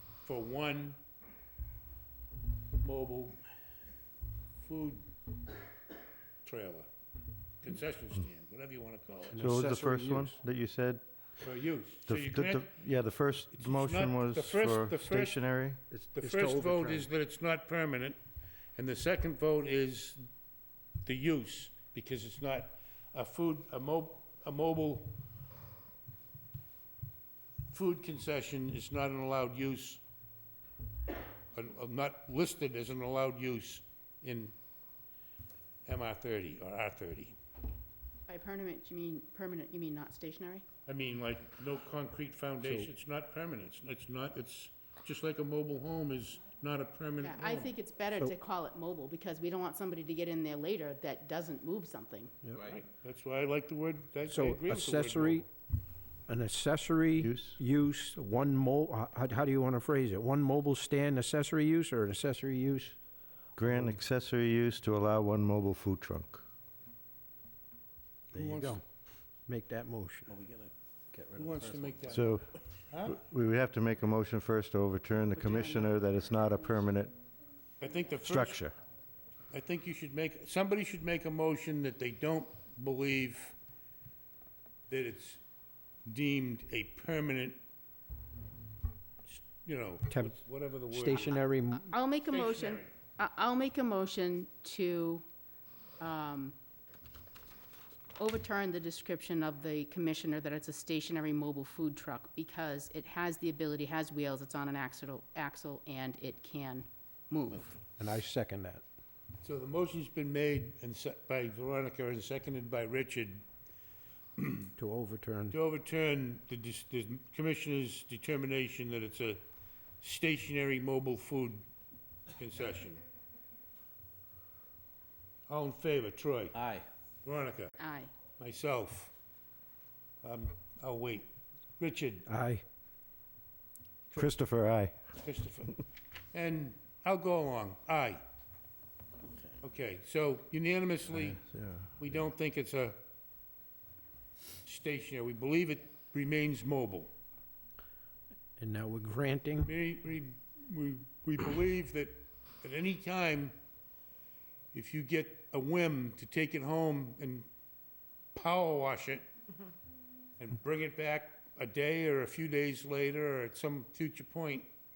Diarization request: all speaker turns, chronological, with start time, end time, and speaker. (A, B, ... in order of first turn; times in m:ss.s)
0:00.2-0:01.0 A
0:02.8-0:03.4 A
0:04.6-0:05.1 A
0:06.4-0:06.9 A
0:07.6-0:09.4 A
0:09.3-0:10.4 B
0:09.4-0:11.0 C
0:11.4-0:12.7 A
0:12.1-0:15.8 C
0:13.6-0:15.4 A
0:15.9-0:17.1 B
0:16.2-0:18.2 A
0:18.8-0:20.2 A
0:21.0-0:25.2 A
0:27.7-0:30.0 A
0:31.5-0:34.5 A
0:35.9-0:37.4 A
0:38.3-0:40.6 D
0:40.9-0:47.7 A
0:47.2-0:52.3 D
0:52.6-0:55.5 A
0:54.3-0:55.5 B
0:56.3-1:03.0 B
0:57.2-0:57.6 C
1:03.6-1:06.4 C
1:03.6-1:04.0 B
1:08.3-1:08.8 A
1:08.3-1:08.8 B
1:09.5-1:10.3 B
1:10.3-1:12.2 E
1:11.4-1:13.2 A
1:12.1-1:12.5 C
1:13.0-1:17.2 C
1:15.4-1:16.0 D
1:17.8-1:18.7 A
1:18.2-1:18.8 C
1:19.5-1:23.6 A
1:24.9-1:25.4 A
1:26.1-1:27.6 A
1:29.3-1:31.4 A
1:30.9-1:31.9 B
1:31.2-1:35.2 D
1:32.3-1:32.9 A
1:36.0-1:36.6 D
1:38.2-1:47.8 D
1:48.0-1:48.8 B
1:49.4-1:53.4 A
1:54.4-1:54.7 A
1:54.8-1:55.6 B
1:55.5-1:59.4 A
2:00.0-2:01.6 A
2:02.4-2:03.0 A
2:05.5-2:06.6 A
2:06.6-2:06.9 E
2:07.2-2:07.8 A
2:07.8-2:08.1 D
2:08.4-2:09.1 A
2:10.2-2:11.3 A
2:11.8-2:12.3 A
2:12.3-2:12.6 B
2:14.1-2:15.0 C
2:15.2-2:15.8 A
2:16.3-2:18.2 A
2:19.6-2:21.4 A
2:21.2-2:21.9 C
2:22.0-2:23.0 A
2:24.6-2:27.1 A
2:28.6-2:29.7 B
2:29.6-2:33.6 A
2:34.7-2:37.5 A
2:38.3-2:39.3 A
2:40.4-2:44.7 A